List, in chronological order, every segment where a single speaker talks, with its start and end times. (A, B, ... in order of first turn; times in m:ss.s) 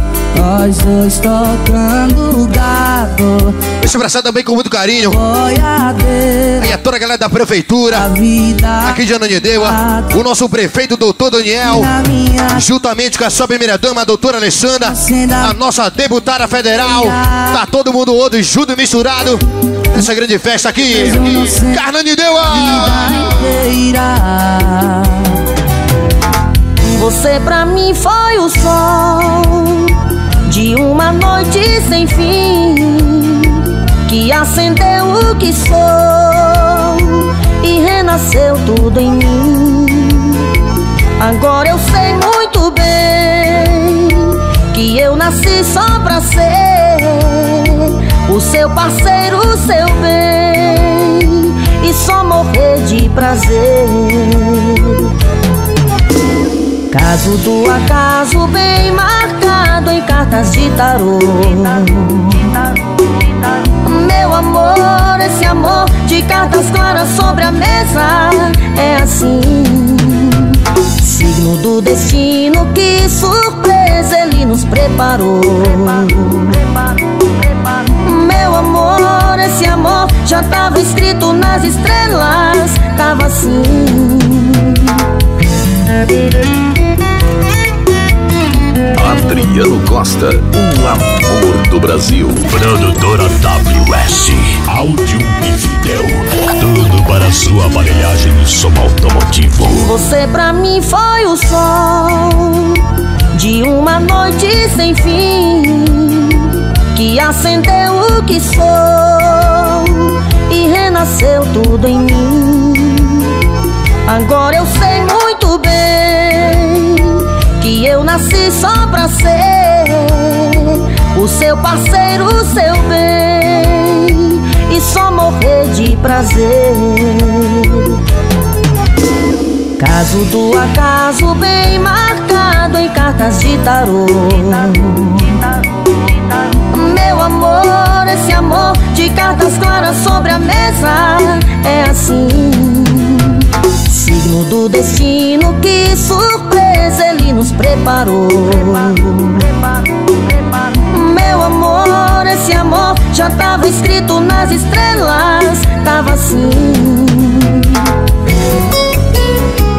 0:00.3-0:03.5 A
0:03.8-0:05.2 B
0:05.1-0:06.6 A
0:06.6-0:08.1 B
0:07.9-0:09.0 A
0:08.8-0:11.9 B
0:09.6-0:10.1 A
0:11.6-0:12.6 A
0:12.5-0:19.4 B
0:14.8-0:15.5 A
0:16.8-0:17.6 A
0:19.9-0:23.3 B
0:20.9-0:21.8 A
0:22.5-0:25.3 A
0:26.8-0:29.8 C
0:30.5-0:33.5 C
0:34.1-0:40.3 C
0:41.2-0:44.1 C
0:44.7-0:54.9 C
0:56.9-1:02.0 C
1:03.8-1:10.4 C
1:11.0-1:16.6 C
1:18.0-1:24.7 C
1:28.9-1:39.9 D
1:39.8-1:42.6 C
1:43.3-1:46.3 C
1:46.9-1:53.1 C
1:54.1-1:57.0 C
1:57.6-2:07.8 C
2:09.8-2:15.2 C
2:16.7-2:23.2 C
2:23.9-2:29.4 C
2:30.9-2:37.6 C